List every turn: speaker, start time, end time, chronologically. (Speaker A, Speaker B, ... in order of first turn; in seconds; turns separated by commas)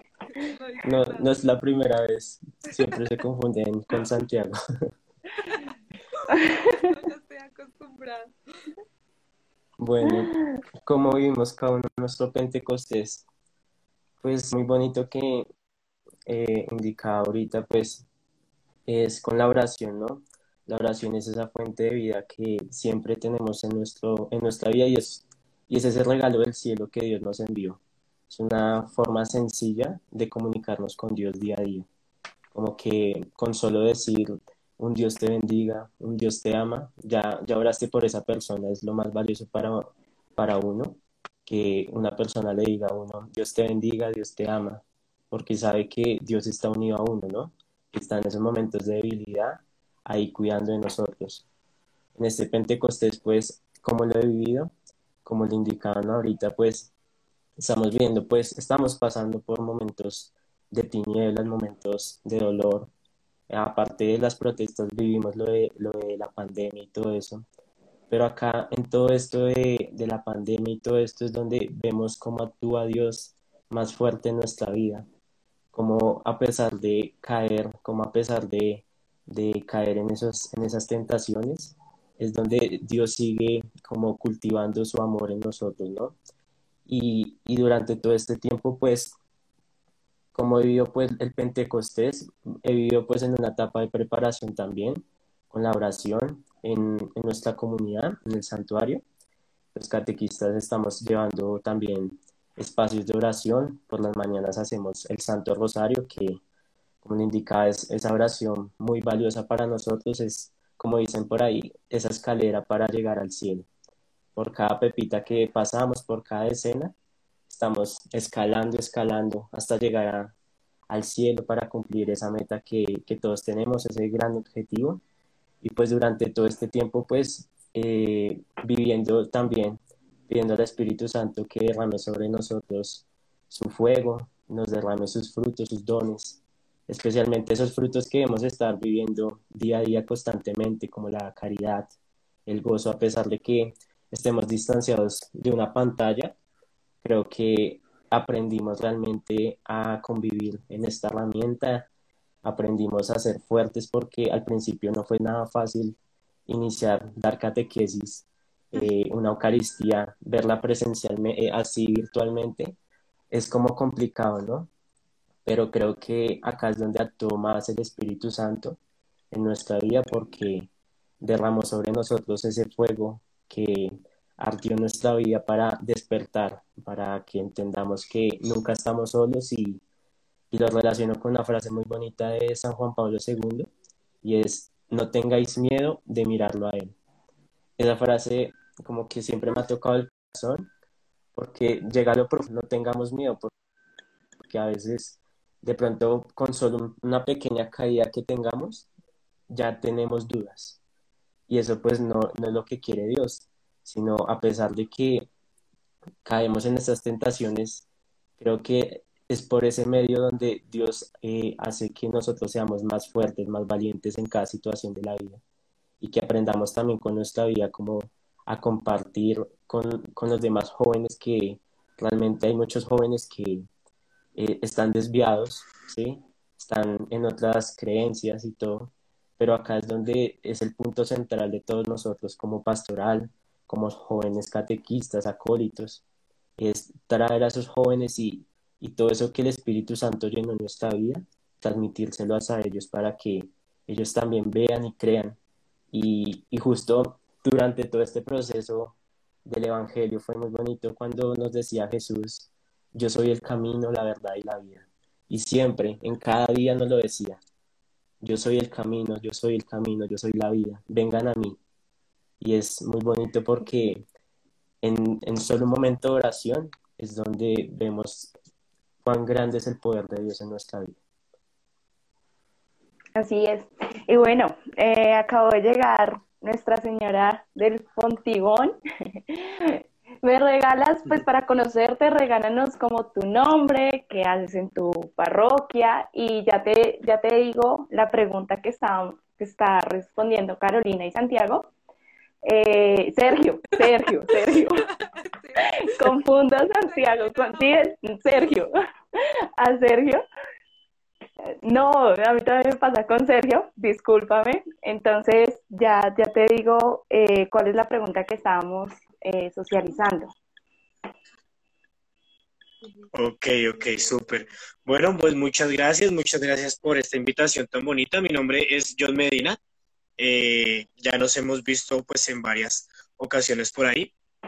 Speaker A: 0.3-1.3, Speaker B: 0.8-4.6, Speaker A: 5.4-8.3, Speaker C: 6.4-6.7, Speaker B: 9.8-13.2, Speaker B: 14.2-15.5, Speaker B: 16.3-18.1, Speaker B: 18.9-31.9, Speaker B: 32.5-51.5, Speaker B: 52.1-54.7, Speaker B: 55.2-56.9, Speaker B: 57.6-62.9, Speaker B: 63.5-67.5, Speaker B: 68.1-75.1, Speaker B: 75.7-86.2, Speaker B: 86.9-89.2, Speaker B: 90.3-99.0, Speaker B: 99.7-106.4, Speaker B: 107.0-113.7, Speaker B: 114.4-116.9, Speaker B: 117.5-120.3, Speaker B: 120.9-125.0, Speaker B: 125.6-141.9, Speaker B: 142.5-146.3, Speaker B: 147.0-151.9, Speaker B: 152.4-162.8, Speaker B: 163.3-164.7, Speaker B: 165.4-168.8, Speaker B: 169.3-170.7, Speaker B: 171.2-179.8, Speaker B: 180.5-183.7, Speaker B: 184.2-186.9, Speaker B: 187.8-190.7, Speaker B: 191.3-193.5, Speaker B: 194.4-198.9, Speaker B: 199.5-200.8, Speaker B: 201.5-205.3, Speaker B: 206.2-207.9, Speaker B: 208.4-215.4, Speaker B: 216.0-223.7, Speaker B: 224.3-236.0, Speaker B: 236.6-245.4, Speaker B: 245.9-257.4, Speaker B: 258.2-261.6, Speaker B: 262.4-264.0, Speaker B: 264.8-268.3, Speaker B: 269.0-271.0, Speaker C: 273.1-278.8, Speaker C: 279.3-291.7, Speaker C: 292.4-294.9, Speaker A: 294.9-296.1, Speaker C: 295.6-300.2, Speaker A: 296.7-297.9, Speaker C: 301.6-310.3, Speaker D: 313.1-319.6, Speaker A: 313.8-314.4, Speaker D: 320.2-324.1